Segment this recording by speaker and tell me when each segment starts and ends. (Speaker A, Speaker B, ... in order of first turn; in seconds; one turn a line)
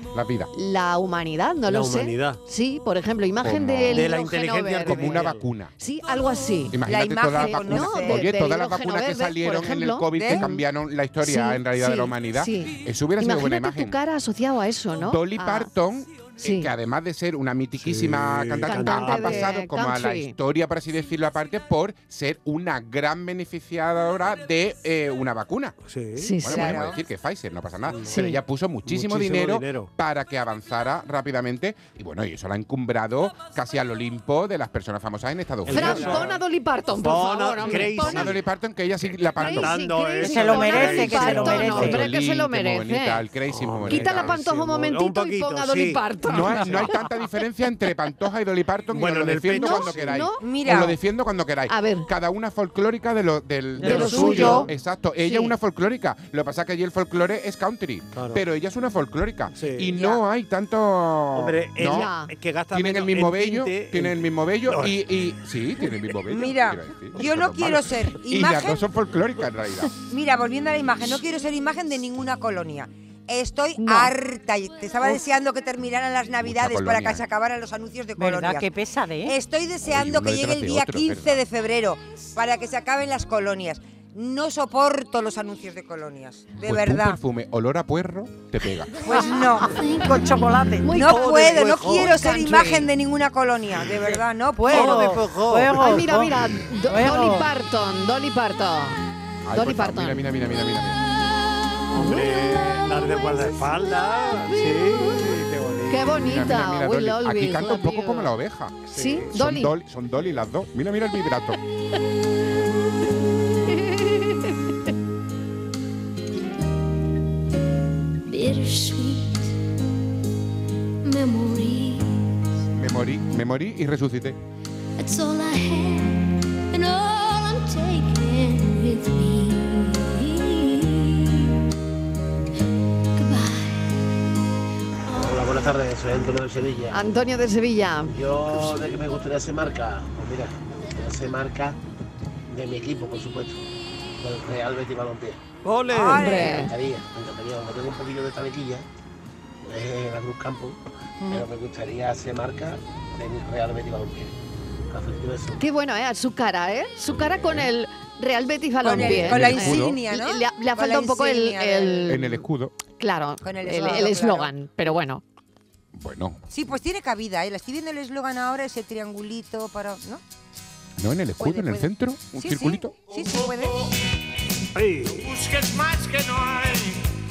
Speaker A: 0.1-0.5
Speaker B: 0.5-5.2
Speaker C: 1.7-2.4
Speaker A: 3.4-4.1
Speaker C: 3.9-5.5
Speaker A: 4.8-5.7
Speaker B: 5.8-6.8
Speaker A: 6.7-14.0
Speaker D: 6.8-8.3
Speaker B: 7.3-10.6
Speaker D: 10.2-10.5
Speaker B: 11.2-15.7
Speaker A: 15.0-25.8
Speaker B: 16.4-16.7
Speaker C: 17.8-19.6
Speaker B: 18.7-20.3
Speaker C: 25.8-26.4
Speaker B: 26.2-26.8
Speaker A: 26.4-36.3
Speaker D: 26.4-27.0
Speaker C: 27.9-28.2
Speaker B: 28.1-28.4
Speaker C: 28.9-29.9
Speaker C: 35.6-36.4
Speaker B: 35.7-38.4
Speaker C: 36.9-38.4
Speaker A: 37.9-39.8
Speaker C: 39.4-42.0
Speaker B: 39.4-43.2
Speaker E: 40.2-42.0
Speaker A: 41.6-44.4
Speaker C: 43.5-46.8
Speaker B: 43.9-47.0
Speaker A: 46.2-62.1
Speaker C: 48.9-50.2
Speaker B: 49.5-50.4
Speaker D: 50.4-51.0
Speaker B: 51.7-52.1
Speaker E: 53.8-54.6
Speaker C: 53.8-54.7
Speaker B: 53.9-54.7
Speaker B: 55.2-55.5
Speaker C: 58.1-58.4
Speaker C: 59.5-59.9
Speaker D: 60.0-60.2
Speaker C: 61.4-65.0
Speaker B: 61.9-62.3
Speaker A: 62.7-70.0
Speaker D: 66.3-68.8
Speaker D: 70.1-78.7
Speaker B: 73.8-74.1
Speaker A: 76.4-77.2
Speaker E: 78.2-79.4
Speaker D: 79.3-87.2
Speaker A: 79.8-81.4
Speaker A: 86.6-89.0
Speaker D: 89.0-89.8
Speaker E: 89.1-91.0
Speaker B: 90.8-91.3
Speaker D: 91.0-95.1
Speaker C: 91.0-92.2
Speaker B: 92.0-92.9
Speaker C: 94.6-96.2
Speaker E: 94.7-97.5
Speaker B: 95.7-99.0
Speaker A: 99.5-101.0
Speaker B: 99.5-100.2
Speaker B: 101.9-102.3
Speaker C: 101.9-106.5
Speaker B: 104.5-105.3
Speaker B: 105.9-108.3
Speaker A: 106.2-108.8
Speaker C: 108.8-109.4
Speaker B: 108.9-109.7
Speaker A: 109.3-111.6
Speaker B: 113.7-114.5
Speaker F: 118.3-119.5
Speaker F: 121.0-122.2
Speaker A: 122.7-124.4
Speaker F: 125.0-131.6
Speaker F: 133.2-133.9
Speaker F: 135.1-135.5
Speaker G: 135.1-137.0
Speaker B: 136.9-138.6
Speaker G: 138.1-141.8
Speaker G: 142.5-143.6
Speaker G: 144.2-145.4
Speaker C: 145.7-146.5
Speaker D: 145.9-146.7
Speaker B: 146.2-146.7
Speaker G: 146.6-148.8
Speaker G: 149.7-150.8
Speaker E: 151.2-151.5
Speaker G: 151.3-154.3
Speaker G: 154.9-155.6
Speaker B: 155.6-162.4
Speaker A: 157.2-157.7
Speaker D: 158.8-162.2
Speaker A: 158.9-160.0
Speaker A: 162.1-162.7
Speaker B: 163.0-165.2
Speaker D: 163.4-164.5
Speaker A: 165.9-166.4
Speaker D: 166.5-170.2
Speaker A: 171.0-172.9
Speaker D: 171.4-173.7
Speaker H: 173.0-173.9
Speaker C: 174.8-175.3
Speaker H: 175.1-177.0